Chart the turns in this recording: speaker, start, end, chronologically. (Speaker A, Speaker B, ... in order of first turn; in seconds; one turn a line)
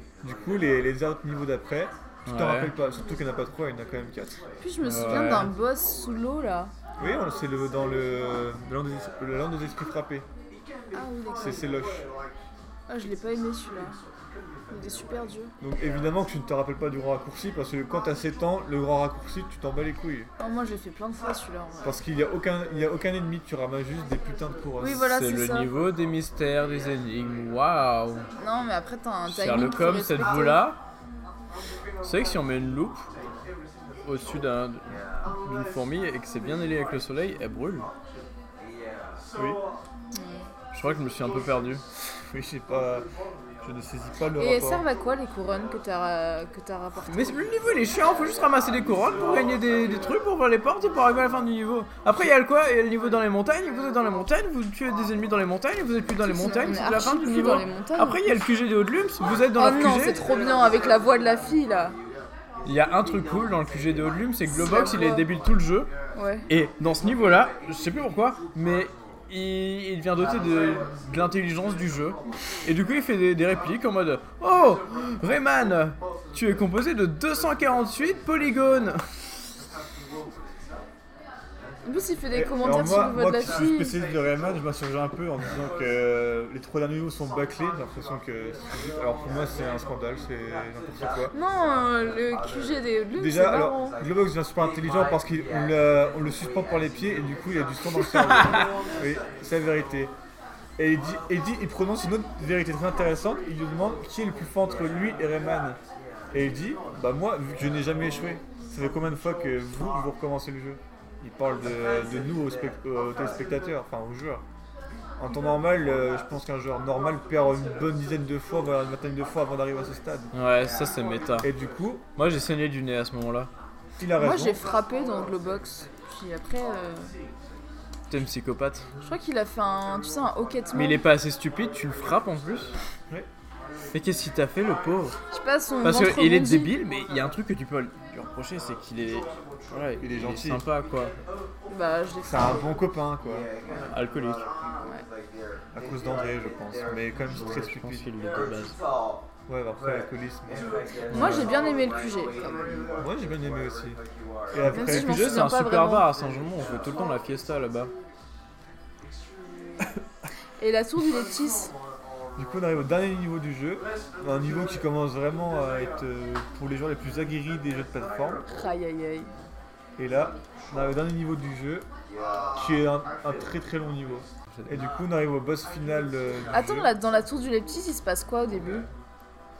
Speaker A: 0.2-4.4
Speaker B: 2.3-2.7
Speaker C: 4.6-6.7
Speaker B: 4.8-5.5
Speaker A: 7.0-10.2
Speaker C: 10.9-11.6
Speaker A: 11.4-12.0
Speaker C: 12.9-14.0
Speaker C: 14.7-15.5
Speaker A: 15.6-20.3
Speaker C: 20.4-22.0
Speaker A: 21.8-25.1
Speaker C: 24.8-25.7
Speaker B: 25.1-28.3
Speaker C: 28.4-30.6
Speaker B: 29.3-30.8
Speaker B: 32.0-33.1
Speaker B: 34.0-37.9
Speaker C: 40.1-40.4
Speaker B: 40.7-41.8
Speaker A: 42.1-43.1
Speaker A: 43.6-44.9
Speaker C: 44.4-47.5
Speaker B: 47.1-60.2
Speaker C: 56.2-58.4
Speaker C: 59.6-62.0
Speaker B: 62.6-65.9
Speaker C: 64.5-65.3
Speaker C: 66.2-66.5
Speaker B: 66.5-79.6
Speaker C: 81.8-84.0
Speaker A: 82.3-91.3
Speaker C: 91.3-94.0
Speaker A: 93.2-100.1
Speaker B: 98.0-98.7
Speaker A: 100.8-105.8
Speaker A: 106.3-114.4
Speaker A: 115.2-120.3
Speaker B: 120.3-121.5
Speaker A: 121.4-122.0
Speaker B: 122.2-123.5
Speaker A: 124.0-124.6
Speaker C: 124.2-127.1
Speaker B: 128.1-128.8
Speaker C: 129.0-131.0
Speaker B: 130.7-132.8
Speaker B: 133.9-135.2
Speaker C: 135.3-136.7
Speaker B: 135.8-141.1
Speaker A: 140.0-140.6
Speaker C: 141.7-142.7
Speaker A: 142.2-143.5
Speaker B: 143.9-144.5
Speaker A: 145.7-148.1
Speaker B: 147.3-148.8
Speaker A: 149.5-150.8
Speaker B: 151.1-151.5
Speaker C: 151.1-152.7
Speaker A: 153.0-154.0
Speaker A: 154.5-155.1
Speaker B: 154.7-157.9
Speaker C: 154.7-156.1
Speaker C: 160.6-161.7
Speaker A: 162.4-168.4
Speaker C: 168.5-169.3
Speaker A: 170.0-171.9
Speaker A: 172.6-176.9
Speaker C: 176.5-178.9